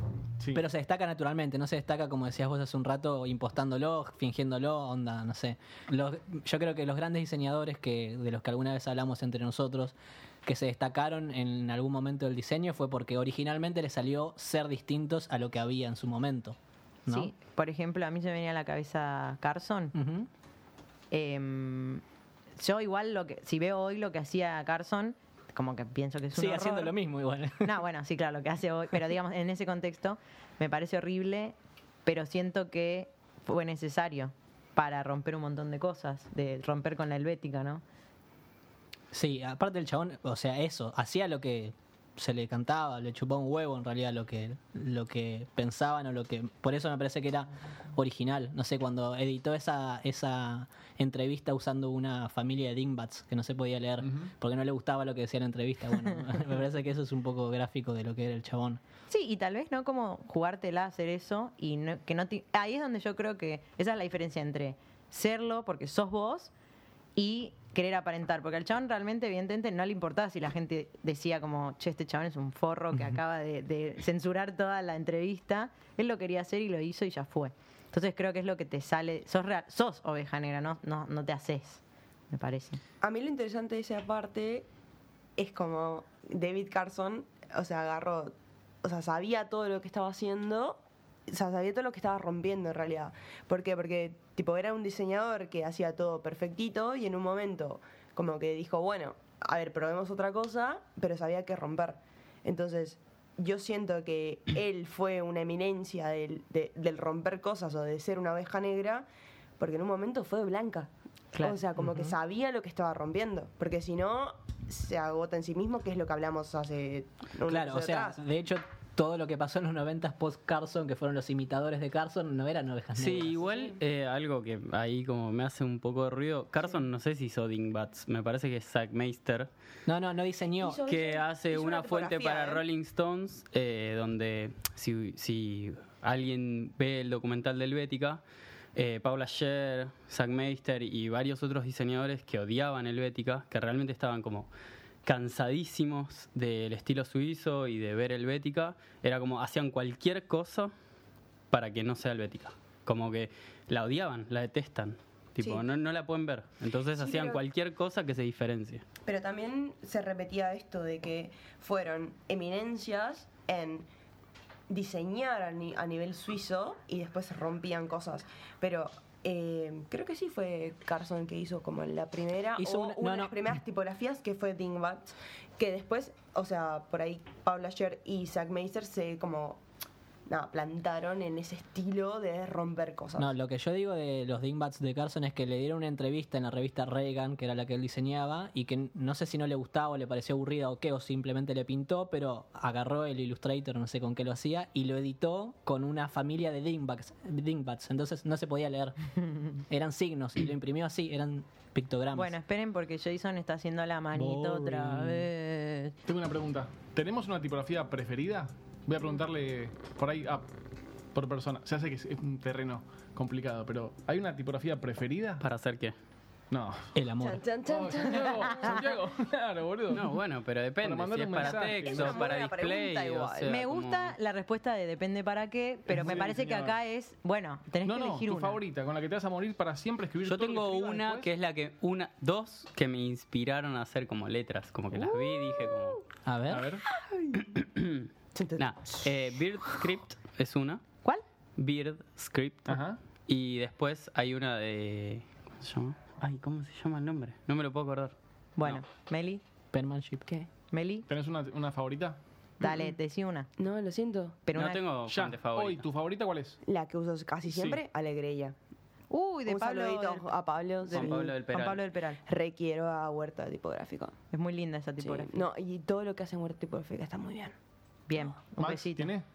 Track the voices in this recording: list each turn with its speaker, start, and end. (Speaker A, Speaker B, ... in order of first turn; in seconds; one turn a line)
Speaker A: 0.5-17.3
Speaker B: 17.1-19.9
Speaker A: 19.9-20.3
Speaker B: 21.1-22.0
Speaker B: 22.6-26.9
Speaker A: 26.3-27.8
Speaker B: 27.6-37.8
Speaker A: 39.1-58.8
Speaker C: 54.0-54.3
Speaker B: 59.1-66.5
Speaker B: 67.2-82.8
Speaker D: 83.0-84.7
Speaker D: 85.4-109.1
Speaker D: 109.6-118.2
Speaker B: 111.3-111.6
Speaker A: 117.5-123.4
Speaker E: 123.0-129.5
Speaker D: 123.5-123.8
Speaker A: 129.8-130.9
Speaker D: 130.6-132.6
Speaker E: 130.8-138.2
Speaker E: 138.7-144.5
Speaker E: 145.0-150.7
Speaker E: 151.5-158.8
Speaker D: 156.9-157.4
Speaker D: 159.1-163.9
Speaker D: 164.7-179.6
Speaker A: 172.6-173.5
Speaker D: 180.3-183.3
Speaker A: 183.2-199.0
Speaker A: 199.6-202.3
Speaker B: 202.1-205.9
Speaker A: 204.1-205.3
Speaker C: 206.0-210.5
Speaker C: 211.1-215.4
Speaker E: 215.4-215.9
Speaker C: 216.5-216.9
Speaker A: 216.9-217.4
Speaker D: 217.2-218.8
Speaker C: 217.7-220.2
Speaker E: 219.9-224.2
Speaker C: 220.8-222.3
Speaker D: 221.5-223.5
Speaker B: 223.4-228.6
Speaker C: 225.9-226.8
Speaker C: 227.8-231.3
Speaker E: 230.2-236.0
Speaker D: 235.2-235.9
Speaker A: 236.2-236.7
Speaker C: 236.5-236.8
Speaker D: 236.9-237.4
Speaker E: 237.4-240.8
Speaker D: 238.3-239.0
Speaker E: 241.6-248.1
Speaker C: 242.7-243.0
Speaker B: 248.6-249.4
Speaker A: 249.7-250.2
Speaker B: 250.7-251.0
Speaker C: 251.1-252.2
Speaker B: 252.6-253.5
Speaker D: 252.6-252.9
Speaker D: 253.6-254.4
Speaker B: 254.4-254.8
Speaker E: 254.5-255.8
Speaker C: 255.1-256.6
Speaker D: 256.6-258.5
Speaker C: 257.4-257.8
Speaker B: 259.1-260.3
Speaker D: 259.4-261.3
Speaker B: 260.9-262.2
Speaker E: 260.9-261.8
Speaker D: 262.2-264.1
Speaker B: 264.3-265.4
Speaker D: 265.0-267.5
Speaker B: 268.1-269.1
Speaker C: 268.5-269.2